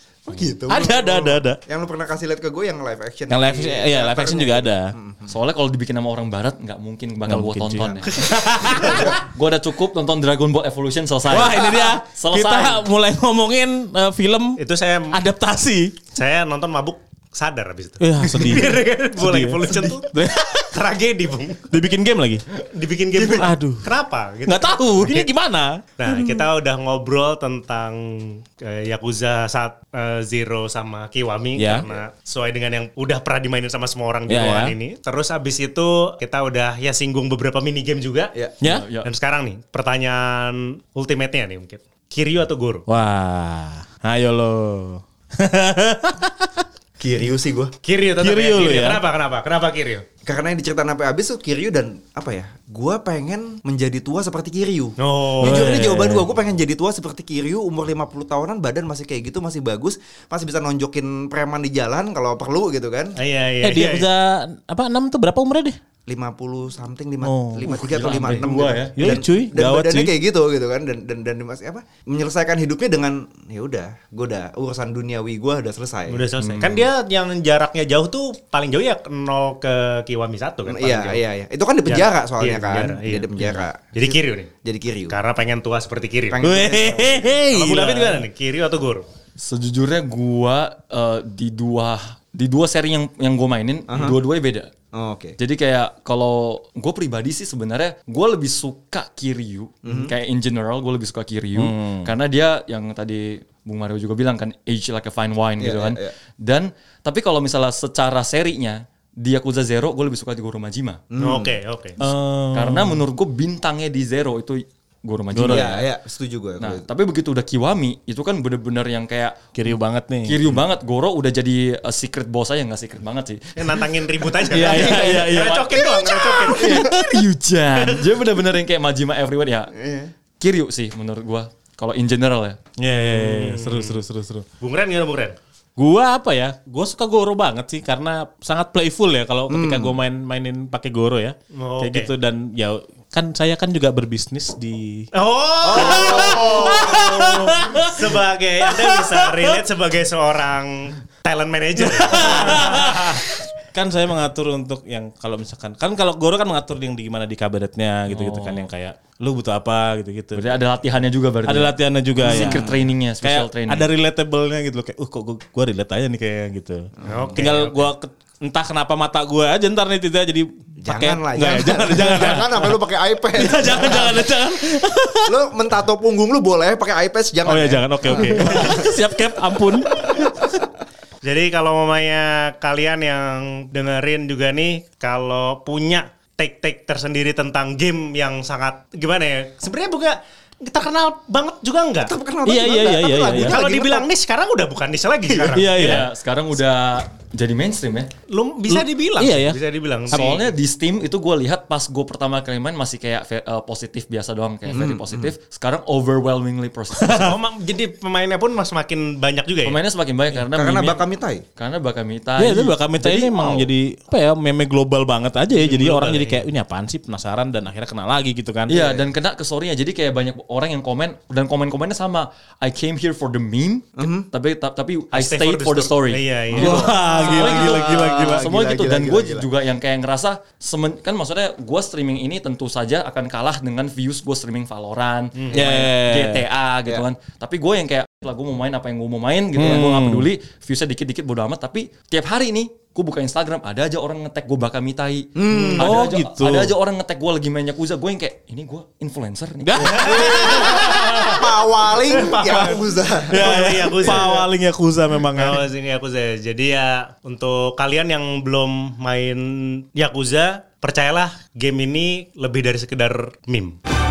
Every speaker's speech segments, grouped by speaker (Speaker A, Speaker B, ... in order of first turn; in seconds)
Speaker A: 0.3-5.4, 7.8-8.1, 8.8-9.2, 47.0-47.7, 50.2-63.2, 66.1-76.3, 80.7-85.2, 86.3-87.4, 93.9-94.2, 94.9-95.4, 99.8-100.1, 105.6-106.1, 111.1-111.6, 115.5-116.9, 124.7-125.3, 125.8-127.0, 129.8-130.1, 139.5-139.9, 145.6-147.5, 162.3-162.7, 167.0-167.5, 170.8-174.3, 175.3-178.9, 179.9-180.4, 192.0-194.1, 195.3-195.6, 204.7-205.3, 210.4-211.4, 218.8-219.1, 224.0-224.3, 226.6-229.5, 245.4-246.1, 249.9-254.2
Speaker B: 0.7-1.6, 3.3-4.9, 7.3-9.1, 11.3-14.6, 15.1-16.0, 18.0-20.7, 21.7-22.4, 23.3-23.9, 24.5-26.5, 31.6-31.9, 34.3-34.7, 38.6-38.9, 42.9-46.6, 48.2-49.0, 55.4-56.2, 63.6-65.8, 67.2-67.7, 69.0-70.2, 86.4-88.2, 101.6-102.1, 112.0-113.0, 115.3-115.7, 119.5-120.6, 124.5-126.2, 132.8-134.5, 135.8-145.1, 145.8-148.1, 148.7-149.6, 151.8-160.6, 161.5-172.8, 173.3-175.3, 177.5-180.5, 192.5-193.6, 195.5-196.1, 198.7-199.6, 200.1-200.4, 207.0-207.3, 212.4-218.9, 226.6-228.5, 235.5-236.4, 239.6-240.3, 245.5-246.8, 249.6-251.4, 253.3-255.6
Speaker C: 5.3-12.8, 38.6-39.1, 67.7-69.1, 76.4-76.9, 89.4-94.7, 95.4-111.0, 112.0-115.9, 116.6-119.4, 120.2-123.9, 124.8-125.8, 126.5-129.7, 130.4-132.6, 158.1-158.7, 160.3-163.9, 195.8-198.1, 200.1-207.3, 209.7-211.0, 211.6-213.7, 218.7-251.3
Speaker D: 14.6-15.2, 16.1-21.7, 22.7-25.3, 26.0-38.3, 39.0-42.9, 47.8-50.0, 55.0-55.8, 63.2-64.1, 76.1-81.2, 81.9-84.5, 85.1-86.4, 87.5-89.0, 111.2-112.0, 123.6-126.8, 133.1-134.0, 134.6-135.4, 141.5-142.1, 145.1-153.1, 167.1-167.9, 181.2-192.1, 193.4-196.0, 198.3-200.5, 207.1-209.8, 215.5-216.4, 225.1-227.0, 249.8-251.2, 251.9-254.5, 255.4-263.8